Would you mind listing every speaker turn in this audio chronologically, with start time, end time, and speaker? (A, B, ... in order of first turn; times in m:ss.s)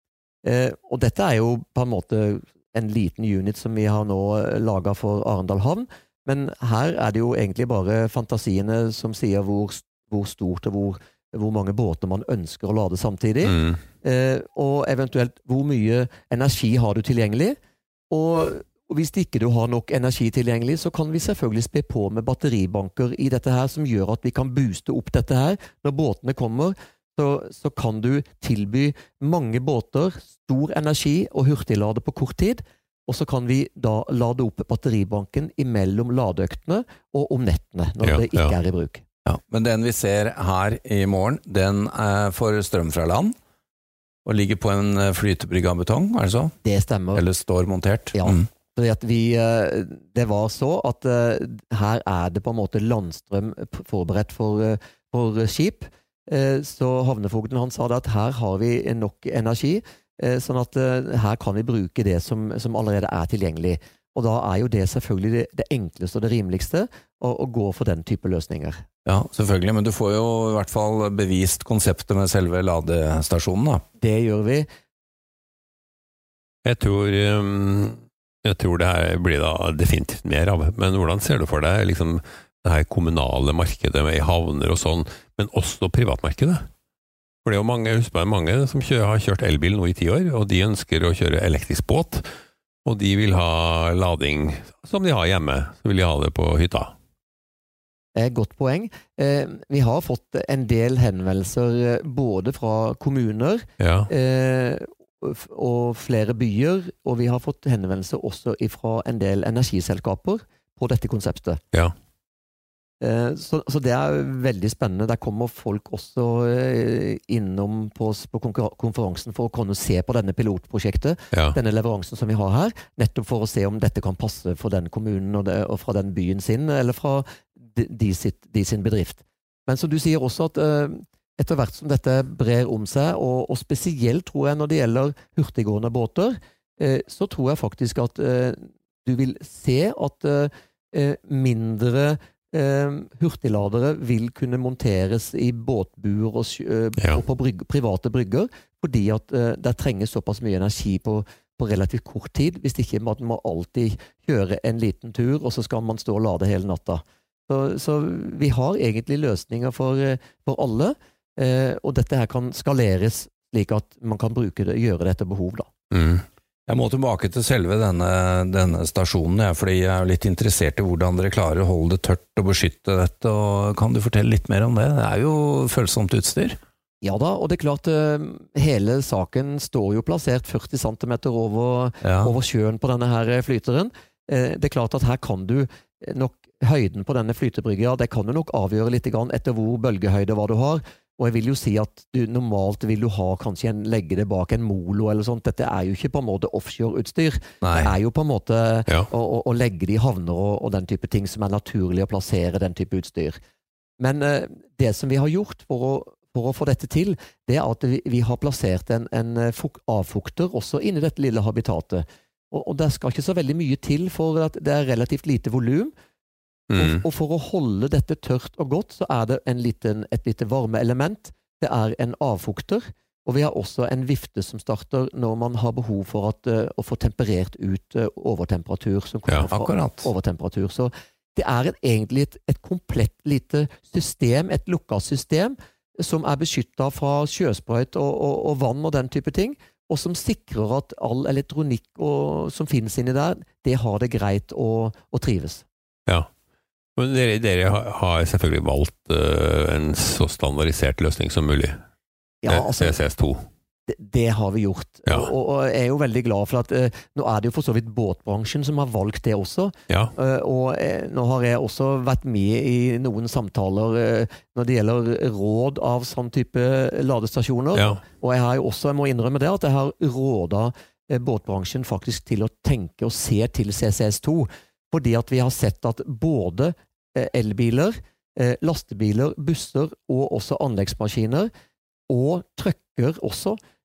0:00.4-0:17.6 A
0:13.4-0:13.8 B
0:18.1-0:39.0 A
0:38.0-0:38.6 B
0:39.2-0:43.3 C
0:44.2-0:46.5 C
0:46.6-0:47.2 A
0:47.1-0:48.4 C
0:48.1-1:08.8 A
1:09.0-1:13.8 C
1:14.0-1:14.7 A
1:16.6-1:26.6 B
1:27.4-1:32.2 B
1:32.8-1:36.9 B
1:38.1-1:51.6 A
1:43.8-1:44.1 B
1:53.0-2:45.7 A
2:01.3-2:01.6 B
2:45.9-2:46.2 B
2:46.7-2:56.6 C
2:57.0-3:23.4 A
3:02.0-3:02.3 C
3:17.6-3:17.9 C
3:24.0-3:35.9 A
3:36.7-3:37.0 B
3:36.8-4:05.6 A
3:49.5-3:50.1 C
4:07.0-4:11.7 B
4:12.4-4:13.0 A
4:12.5-4:13.4 B
4:13.9-4:41.5 A
4:19.9-4:20.1 B
4:27.7-4:28.0 B
4:42.1-4:43.6 A